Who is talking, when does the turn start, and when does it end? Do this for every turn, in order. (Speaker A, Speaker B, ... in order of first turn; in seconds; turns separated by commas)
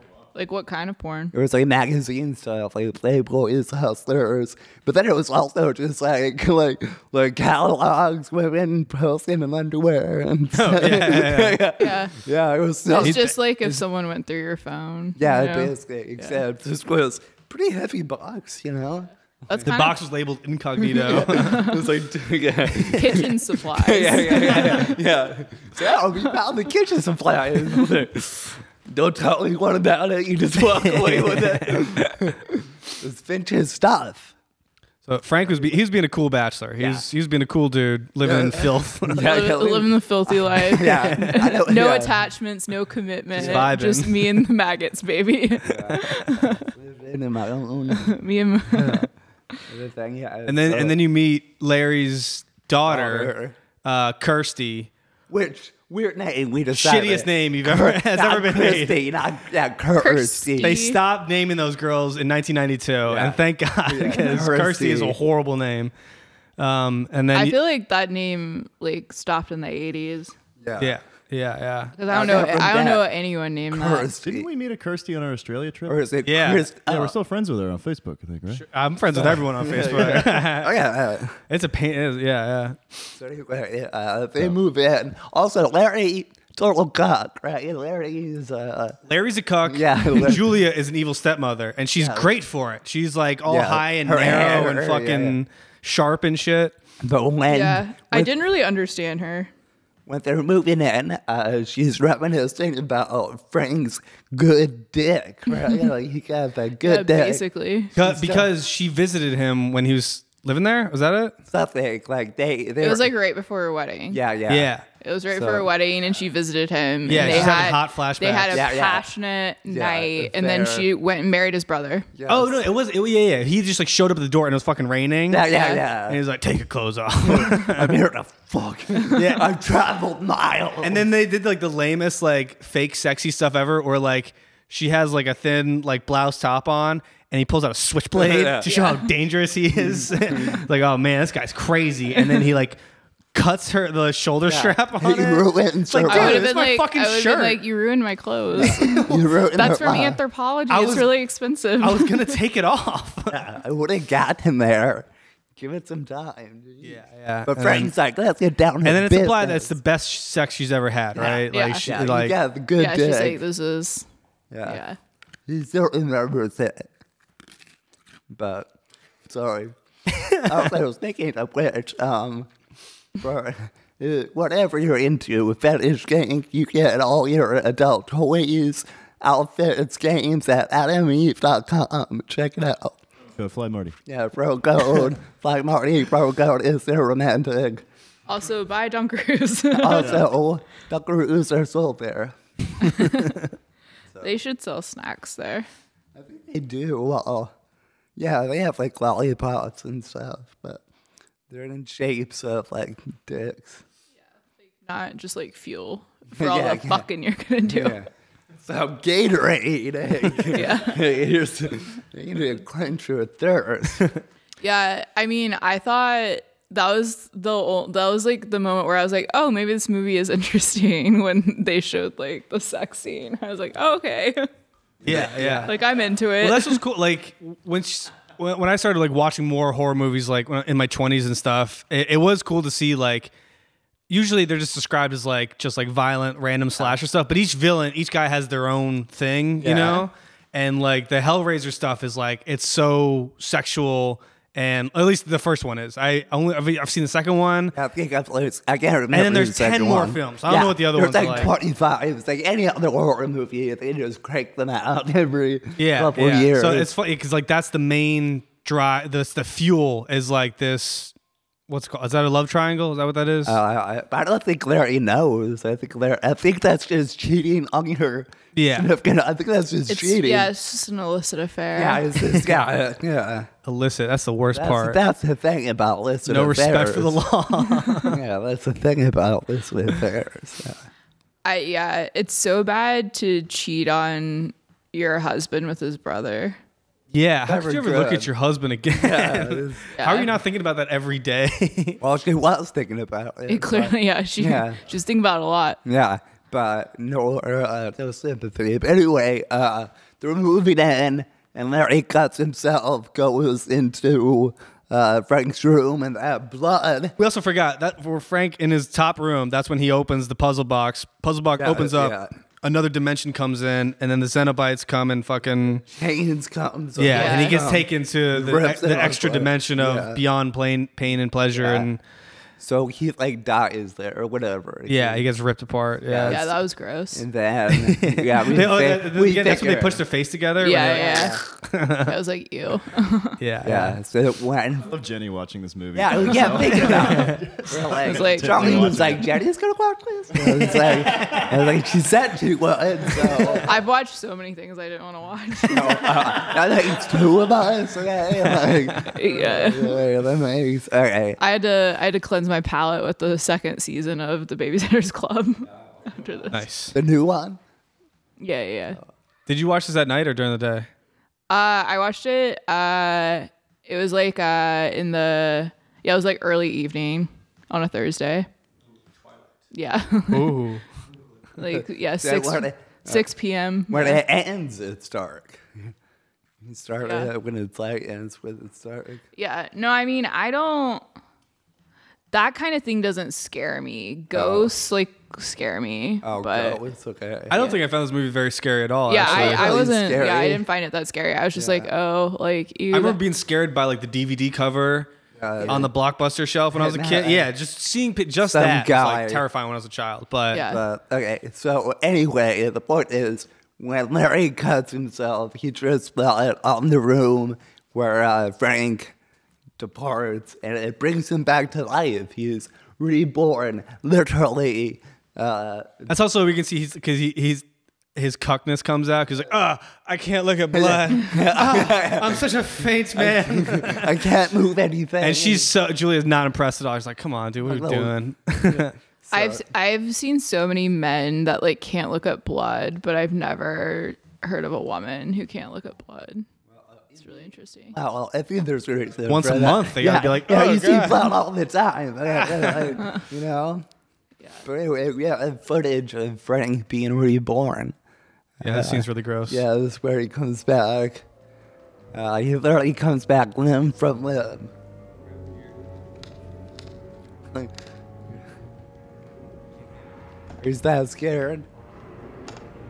Speaker A: 0.3-1.3, Speaker B: 1.3-13.8, Speaker C: 10.5-11.7, Speaker A: 11.8-12.1, Speaker A: 12.9-16.4, Speaker C: 13.0-13.4, Speaker B: 15.2-19.7, Speaker A: 19.5-20.0, Speaker C: 19.6-21.7, Speaker A: 20.8-21.9, Speaker B: 21.0-34.3, Speaker A: 22.8-25.0, Speaker C: 30.6-32.0, Speaker C: 35.0-39.3, Speaker B: 36.8-37.0, Speaker B: 38.2-42.2, Speaker A: 39.1-46.7, Speaker C: 40.8-41.5, Speaker C: 43.3-44.5, Speaker B: 43.3-43.7, Speaker B: 45.6-48.2, Speaker A: 47.9-49.1, Speaker B: 48.7-49.0, Speaker B: 49.7-51.0, Speaker C: 50.5-54.9, Speaker B: 52.9-53.6, Speaker B: 55.3-60.8, Speaker C: 56.7-58.9, Speaker A: 60.0-61.0, Speaker C: 60.6-65.9, Speaker B: 63.1-65.2, Speaker C: 66.6-67.6, Speaker A: 67.3-70.3, Speaker B: 70.6-71.0, Speaker C: 70.8-71.9, Speaker A: 72.0-74.1, Speaker B: 72.1-73.1, Speaker B: 73.7-74.5, Speaker D: 74.2-76.0, Speaker B: 75.9-77.1, Speaker C: 76.2-76.7, Speaker D: 76.9-78.7, Speaker C: 78.5-80.7, Speaker B: 79.1-81.4, Speaker C: 81.5-82.8, Speaker B: 83.1-89.0, Speaker C: 89.1-96.8, Speaker B: 89.7-90.4, Speaker B: 92.0-92.3, Speaker B: 93.5-95.4, Speaker B: 97.0-98.3, Speaker A: 97.5-99.5, Speaker B: 100.1-107.4, Speaker A: 106.8-107.9, Speaker C: 107.9-111.3, Speaker B: 108.0-108.5, Speaker B: 111.5-113.1, Speaker A: 112.8-114.2, Speaker B: 114.1-114.7, Speaker C: 114.5-114.8, Speaker A: 115.0-122.1, Speaker B: 115.3-115.7, Speaker C: 117.0-118.7, Speaker B: 117.1-117.7, Speaker B: 118.5-119.0, Speaker B: 119.7-120.9, Speaker B: 122.1-122.6, Speaker C: 122.3-128.0, Speaker B: 125.3-126.2, Speaker A: 125.5-125.8, Speaker B: 127.2-131.1, Speaker C: 129.0-129.5, Speaker C: 130.8-142.8, Speaker B: 138.1-138.7, Speaker A: 138.7-139.0, Speaker B: 139.8-140.6, Speaker C: 143.3-147.6, Speaker B: 144.4-146.5, Speaker A: 146.1-152.4, Speaker B: 148.6-150.2, Speaker C: 148.6-149.3, Speaker C: 150.7-151.1, Speaker C: 151.8-153.4, Speaker B: 153.3-159.7, Speaker C: 156.8-157.9, Speaker C: 158.8-162.3, Speaker B: 161.2-163.4, Speaker A: 161.2-161.9, Speaker A: 162.8-164.1, Speaker B: 164.5-164.8, Speaker A: 164.6-165.0, Speaker B: 165.5-166.9, Speaker B: 168.3-168.7, Speaker B: 169.2-169.7, Speaker B: 170.3-172.5, Speaker B: 173.2-183.0, Speaker D: 183.3-183.9, Speaker B: 184.1-187.8, Speaker A: 188.3-190.3, Speaker B: 189.7-192.3, Speaker A: 192.8-193.4, Speaker A: 194.2-195.7, Speaker B: 196.1-197.5, Speaker B: 198.2-200.8, Speaker B: 201.5-203.8, Speaker A: 204.8-208.0, Speaker B: 206.3-207.1, Speaker B: 207.7-208.1, Speaker B: 208.6-214.1, Speaker A: 210.4-211.1, Speaker A: 214.6-224.5, Speaker B: 225.0-225.7, Speaker C: 225.0-225.7, Speaker A: 225.6-226.8, Speaker C: 226.4-233.3, Speaker C: 234.1-247.7, Speaker B: 239.6-240.1, Speaker B: 247.7-256.9, Speaker C: 249.1-251.5, Speaker C: 255.8-261.1, Speaker C: 261.7-263.6, Speaker B: 263.4-270.5, Speaker C: 268.5-268.9, Speaker A: 269.9-272.1, Speaker B: 271.7-273.5, Speaker C: 273.6-275.0, Speaker B: 274.5-277.2, Speaker C: 276.2-278.2, Speaker A: 277.7-278.1, Speaker B: 278.1-280.8, Speaker A: 281.4-286.6, Speaker C: 287.1-292.0, Speaker B: 287.4-288.3, Speaker B: 288.9-289.9, Speaker A: 289.9-290.3, Speaker B: 292.0-294.8, Speaker A: 293.5-295.8, Speaker B: 295.8-307.1, Speaker C: 307.2-315.8, Speaker B: 311.6-312.3, Speaker B: 315.9-320.2, Speaker C: 317.0-322.0, Speaker A: 317.1-317.6, Speaker B: 321.5-321.9, Speaker B: 322.6-325.2, Speaker C: 324.9-326.4, Speaker B: 326.1-326.5, Speaker A: 326.3-327.2, Speaker B: 327.1-330.0, Speaker C: 327.7-332.2, Speaker A: 330.6-331.4, Speaker B: 330.8-331.4, Speaker A: 332.0-333.4, Speaker C: 333.4-334.0, Speaker B: 333.6-334.9, Speaker D: 334.8-339.4, Speaker B: 335.9-343.7, Speaker C: 336.8-337.5, Speaker A: 338.0-339.0, Speaker C: 340.7-341.2, Speaker A: 343.6-346.5, Speaker B: 345.6-351.4, Speaker A: 349.0-350.0, Speaker A: 351.4-356.6, Speaker C: 356.5-356.9, Speaker B: 356.9-357.6, Speaker A: 358.4-359.0, Speaker C: 359.5-360.9, Speaker A: 361.5-368.5, Speaker A: 369.7-370.6, Speaker C: 370.3-370.8, Speaker A: 371.6-374.2, Speaker B: 371.6-373.3, Speaker B: 373.9-375.9, Speaker B: 376.6-379.2, Speaker A: 377.0-377.3, Speaker A: 379.3-381.0, Speaker A: 382.3-386.8, Speaker B: 384.3-384.7, Speaker B: 386.2-387.6, Speaker C: 387.5-389.8, Speaker A: 387.5-387.8, Speaker A: 389.1-393.2, Speaker B: 389.2-390.6, Speaker B: 391.5-391.9, Speaker C: 392.9-395.1, Speaker B: 395.4-395.9, Speaker C: 395.6-400.6, Speaker B: 396.7-397.5, Speaker B: 398.4-399.4, Speaker A: 400.5-400.8, Speaker B: 400.6-409.1, Speaker B: 409.8-416.1, Speaker C: 416.1-424.2, Speaker B: 420.7-422.5, Speaker B: 423.1-425.7, Speaker C: 425.2-428.9, Speaker B: 427.6-428.1, Speaker B: 428.6-429.6, Speaker A: 429.3-436.4, Speaker B: 436.7-443.8, Speaker A: 437.2-437.9, Speaker C: 439.3-441.3, Speaker C: 442.5-442.9, Speaker B: 444.6-447.9, Speaker B: 448.6-451.2, Speaker C: 448.6-449.6, Speaker B: 452.1-454.7, Speaker B: 460.6-461.7